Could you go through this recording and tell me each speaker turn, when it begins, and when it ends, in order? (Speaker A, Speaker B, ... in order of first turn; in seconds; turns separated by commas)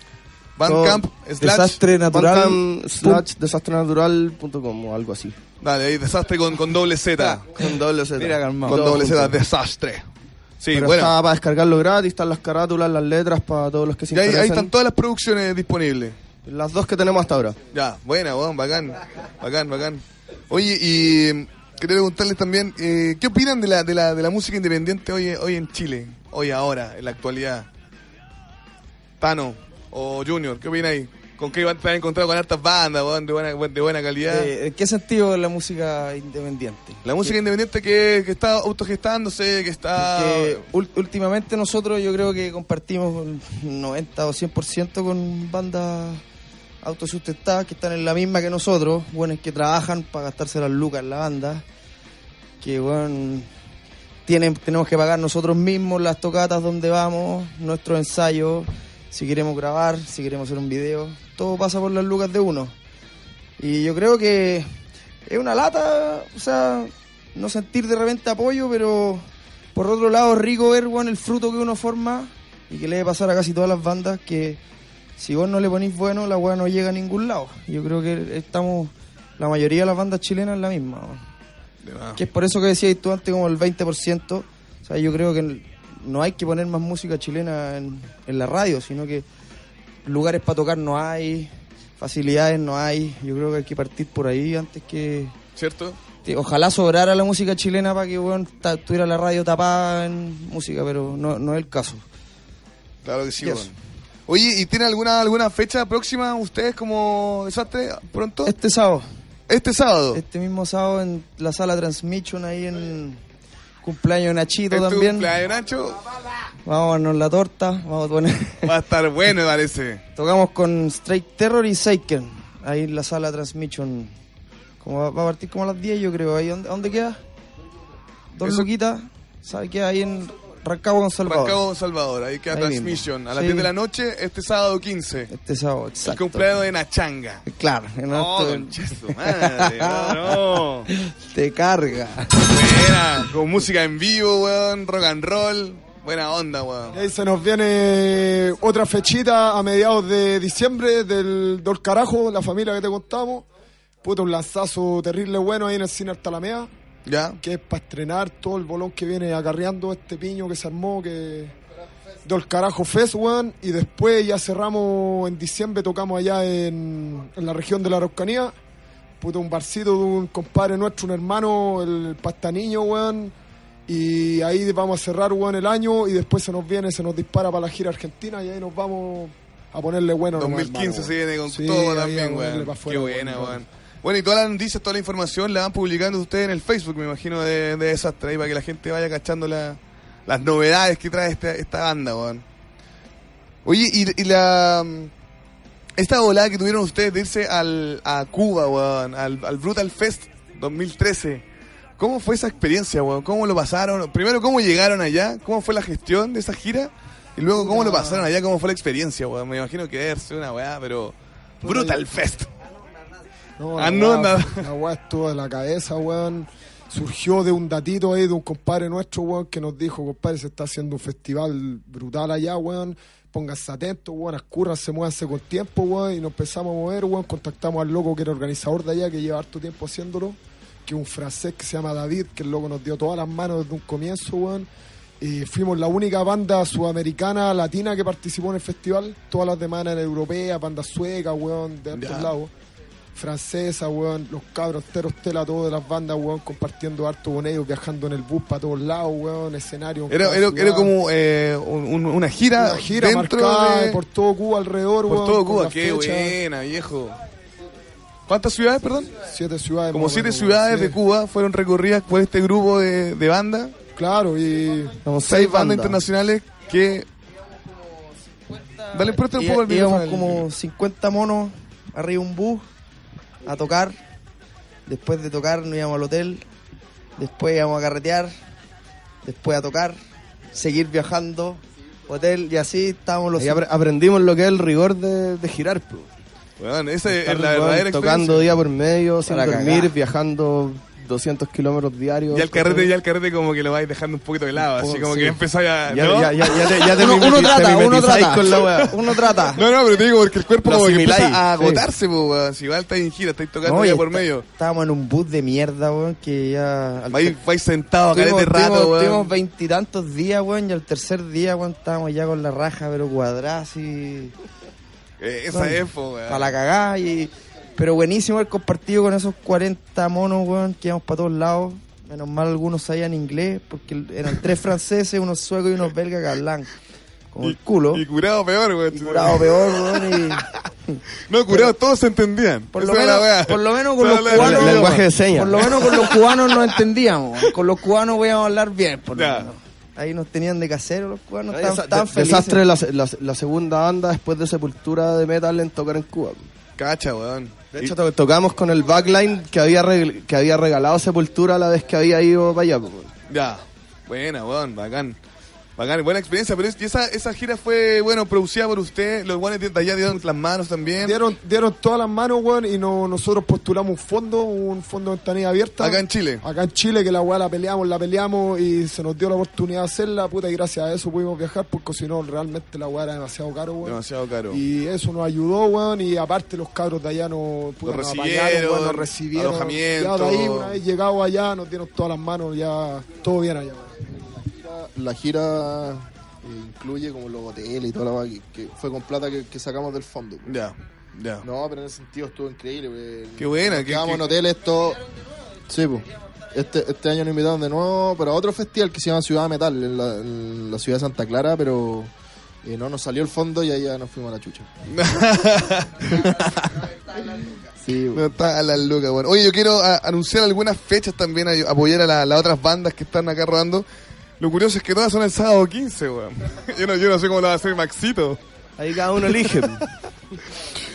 Speaker A: 0.6-1.8, Speaker B: 0.7-1.0, Speaker C: 1.4-3.3, Speaker B: 2.1-5.4, Speaker A: 5.6-7.5, Speaker C: 7.2-8.9, Speaker B: 7.5-9.4, Speaker A: 8.7-10.1, Speaker A: 10.6-11.1, Speaker B: 10.7-14.7, Speaker A: 14.1-16.2, Speaker B: 16.4-17.6, Speaker A: 17.7-27.7, Speaker A: 29.2-34.5, Speaker C: 34.3-37.4, Speaker A: 37.0-40.6, Speaker C: 40.0-46.2, Speaker C: 46.8-51.6, Speaker C: 52.6-53.5, Speaker C: 54.3-62.7, Speaker C: 63.6-64.7, Speaker C: 65.3-74.6, Speaker C: 75.2-81.2, Speaker A: 81.8-82.2, Speaker C: 82.2-89.3, Speaker C: 90.0-95.3, Speaker A: 95.6-96.0, Speaker C: 96.2-102.0, Speaker A: 103.0-103.7, Speaker C: 103.4-103.7, Speaker A: 104.3-108.5, Speaker C: 108.5-109.1, Speaker A: 109.5-110.2, Speaker C: 110.1-113.2, Speaker C: 113.8-115.3, Speaker A: 114.7-116.0, Speaker C: 116.7-118.7, Speaker A: 118.6-120.0, Speaker C: 120.2-124.1, Speaker C: 124.8-127.2, Speaker C: 128.3-131.6, Speaker A: 128.4-128.7, Speaker A: 131.3-135.3, Speaker C: 132.5-133.7, Speaker C: 135.3-136.5, Speaker A: 136.1-137.4, Speaker C: 137.5-142.5, Speaker A: 138.1-140.9, Speaker A: 142.4-147.0, Speaker D: 146.9-153.5, Speaker D: 154.0-156.7, Speaker A: 157.1-157.4, Speaker D: 157.4-161.6, Speaker D: 162.2-168.5, Speaker D: 169.2-173.3, Speaker D: 173.9-183.7, Speaker A: 180.4-192.4, Speaker A: 193.7-195.1, Speaker A: 196.0-201.4, Speaker A: 202.0-212.5, Speaker D: 207.5-208.3, Speaker D: 211.6-212.0, Speaker D: 213.6-234.7, Speaker A: 213.8-214.7, Speaker D: 235.2-242.5, Speaker A: 241.9-242.3, Speaker D: 243.2-250.9, Speaker A: 250.1-254.0, Speaker D: 252.6-256.4, Speaker A: 255.1-257.2, Speaker A: 258.3-259.1, Speaker D: 259.2-261.0, Speaker A: 259.9-263.8, Speaker D: 263.9-264.9, Speaker B: 265.0-266.0, Speaker A: 265.2-267.1, Speaker C: 268.4-272.7, Speaker A: 268.9-270.5, Speaker C: 273.4-274.0, Speaker C: 274.9-276.4, Speaker C: 277.2-278.3, Speaker C: 279.2-280.0, Speaker C: 280.5-283.6, Speaker B: 283.4-286.1, Speaker A: 286.6-288.5, Speaker B: 287.1-292.9, Speaker C: 289.3-289.9, Speaker A: 292.3-297.6, Speaker B: 294.6-299.2, Speaker C: 297.0-299.6, Speaker A: 298.5-298.9, Speaker A: 299.5-304.4, Speaker B: 300.6-301.9, Speaker C: 303.6-307.4, Speaker A: 307.1-309.3, Speaker C: 308.1-314.3, Speaker A: 315.2-316.5, Speaker C: 315.5-326.7, Speaker C: 327.3-328.0, Speaker A: 327.4-330.7, Speaker C: 328.9-331.7, Speaker A: 331.3-335.0, Speaker C: 332.7-342.6, Speaker B: 334.3-336.1, Speaker A: 335.6-336.6, Speaker A: 339.1-339.5, Speaker B: 341.5-346.5, Speaker A: 346.8-347.9, Speaker B: 347.7-353.1, Speaker A: 353.3-355.2, Speaker A: 355.8-361.2, Speaker D: 361.0-384.0, Speaker A: 365.8-366.4, Speaker A: 373.8-374.6, Speaker A: 377.9-380.8, Speaker E: 384.4-390.5, Speaker A: 390.5-391.4, Speaker E: 391.4-395.0, Speaker A: 393.4-394.3, Speaker E: 395.7-402.1, Speaker E: 402.6-404.7, Speaker A: 404.9-406.7, Speaker E: 407.8-408.2, Speaker A: 408.1-413.9, Speaker A: 414.4-418.4, Speaker B: 418.8-419.8, Speaker A: 419.3-419.8